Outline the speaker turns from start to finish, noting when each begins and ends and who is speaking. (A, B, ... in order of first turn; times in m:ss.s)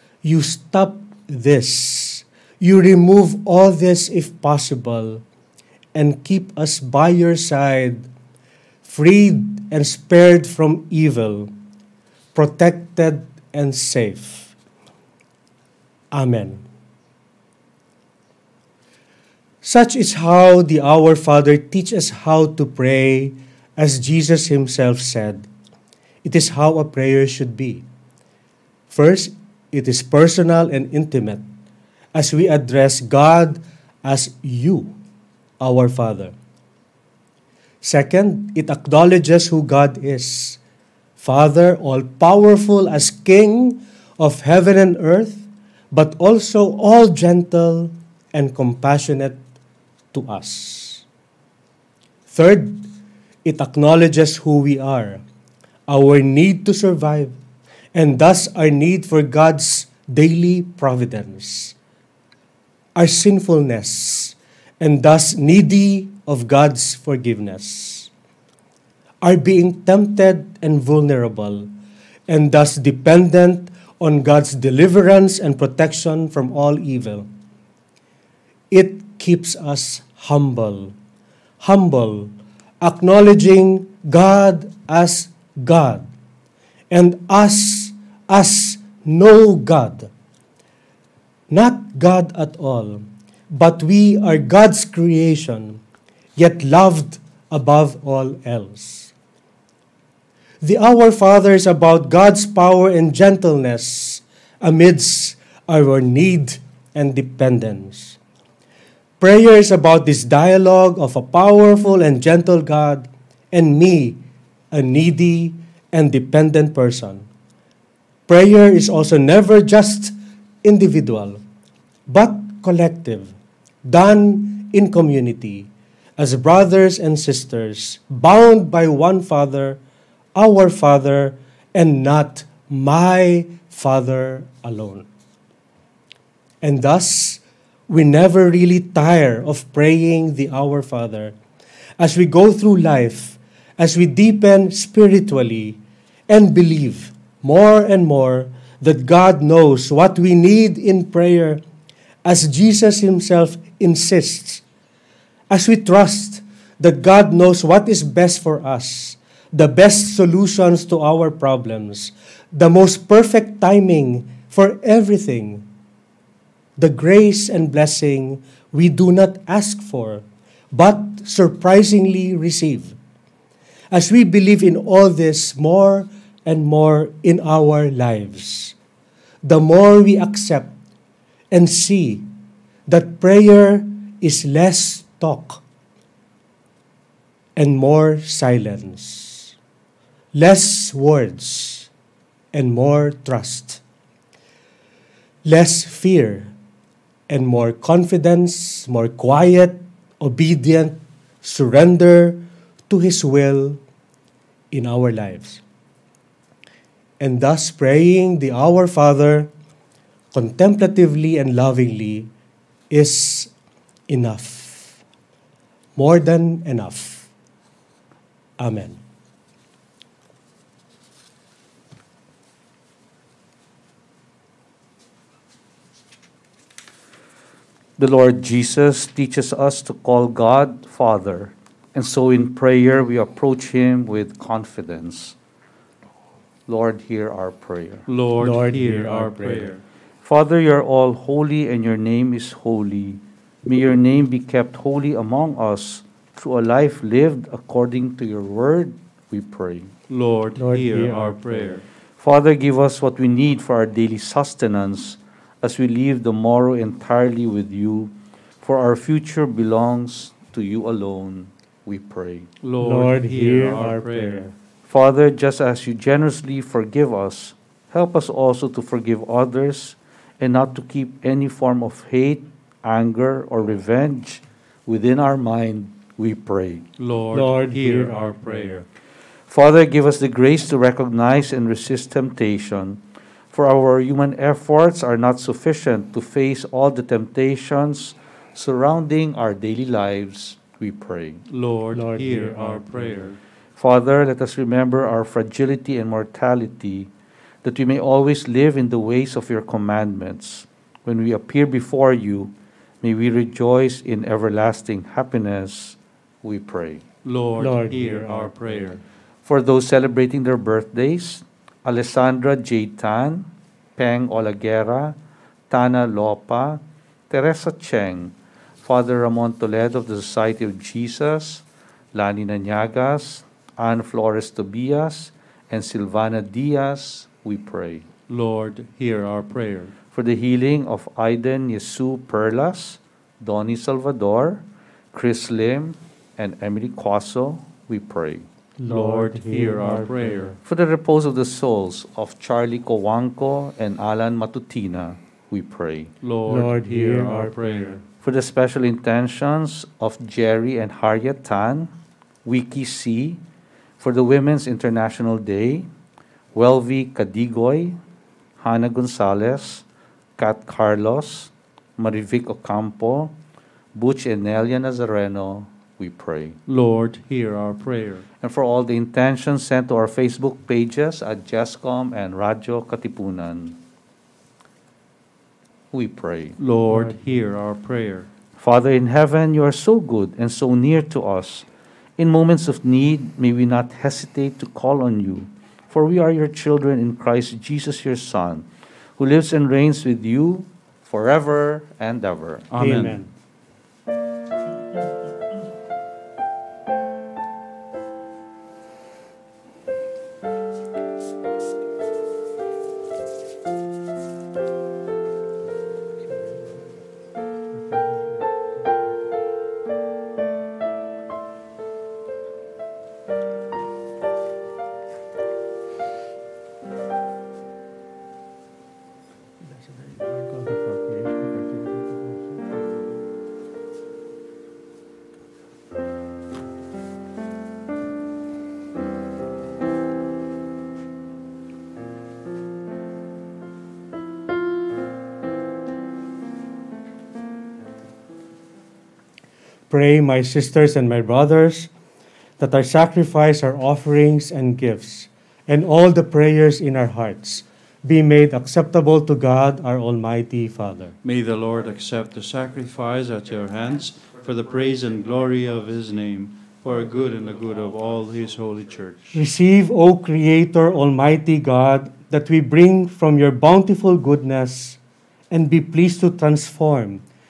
0:00.2-0:05.2 A
0:05.9-0:08.1 A
0:08.8-0:11.5 A
0:12.3-0:14.5 A
0:16.1-0:16.7 A
0:19.6-0:25.5 A
0:26.2-0:27.8 A
0:28.9-0:31.4 A
0:32.1-0:35.0 A
0:35.6-0:36.3 A
0:37.8-0:40.6 A
0:41.2-0:49.4 A
0:50.1-0:51.0 A
0:52.3-0:52.9 A
0:53.4-0:55.2 A
0:55.9-0:57.4 A
0:57.9-1:01.8 A
1:03.0-1:08.1 A
1:09.2-1:11.7 A
1:12.3-1:17.3 A
1:18.7-1:20.9 A
1:21.6-1:26.1 A
1:26.9-1:30.1 A
1:31.5-1:35.8 A
1:36.4-1:39.1 A
1:40.6-1:48.2 A
1:49.2-1:57.3 A
1:58.3-2:01.4 A
2:02.1-2:03.3 A
2:03.8-2:09.8 A
2:10.4-2:15.1 A
2:16.6-2:21.4 A
2:22.0-2:31.6 A
2:32.2-2:34.6 A
2:35.5-2:45.6 A
2:46.8-2:53.0 A
2:53.9-2:58.8 A
2:59.4-3:00.7 A
3:01.5-3:02.3 A
3:02.9-3:05.6 A
3:07.6-3:09.5 A
3:10.3-3:11.9 A
3:12.5-3:13.8 A
3:15.4-3:16.5 A
3:17.3-3:23.8 A
3:24.7-3:25.6 A
3:27.2-3:29.5 A
3:30.3-3:32.3 A
3:32.9-3:33.5 A
3:34.1-3:35.0 A
3:36.0-3:37.3 A
3:38.6-3:39.0 A
3:48.0-3:55.4 B
3:56.7-3:58.1 B
3:58.1-3:59.8 C
3:58.4-3:59.8 A
4:00.2-4:09.9 B
4:10.1-4:11.8 C
4:10.6-4:11.8 A
4:12.2-4:22.5 B
4:22.6-4:24.4 C
4:22.8-4:24.6 A
4:24.9-4:36.9 B
4:37.0-4:38.8 C
4:37.3-4:38.9 A
4:39.5-4:43.0 B
4:43.5-4:51.4 B
4:51.5-4:53.4 C
4:51.9-4:53.3 A
4:53.8-4:57.1 B
4:57.6-5:07.0 B
5:07.2-5:09.0 C
5:07.6-5:09.0 A
5:09.4-5:15.2 B
5:15.7-5:28.1 B
5:28.3-5:29.9 C
5:30.1-5:38.5 B
5:38.8-5:40.6 A
5:38.9-5:40.6 C
5:40.6-5:46.1 B
5:46.2-5:48.0 C
5:46.5-5:48.0 A
5:48.2-5:51.9 B
5:52.4-5:53.4 B
5:54.0-5:55.9 B
5:56.5-5:58.0 B
5:58.6-5:59.8 B
6:00.4-6:03.3 B
6:03.9-6:06.6 B
6:06.7-6:08.2 C
6:08.4-6:13.8 B
6:15.9-6:16.6 B
6:16.6-6:18.3 C
6:18.6-6:21.7 B
6:22.2-6:28.7 B
6:29.2-6:32.7 B
6:32.7-6:33.2 C
6:32.8-6:33.3 A
6:46.3-6:46.8 A
6:47.9-6:48.2 A
6:59.6-7:03.1 A
7:19.9-7:21.9 A
7:22.6-7:31.2 A
7:31.2-7:39.4 C
7:39.3-7:45.0 A
7:45.5-7:47.2 A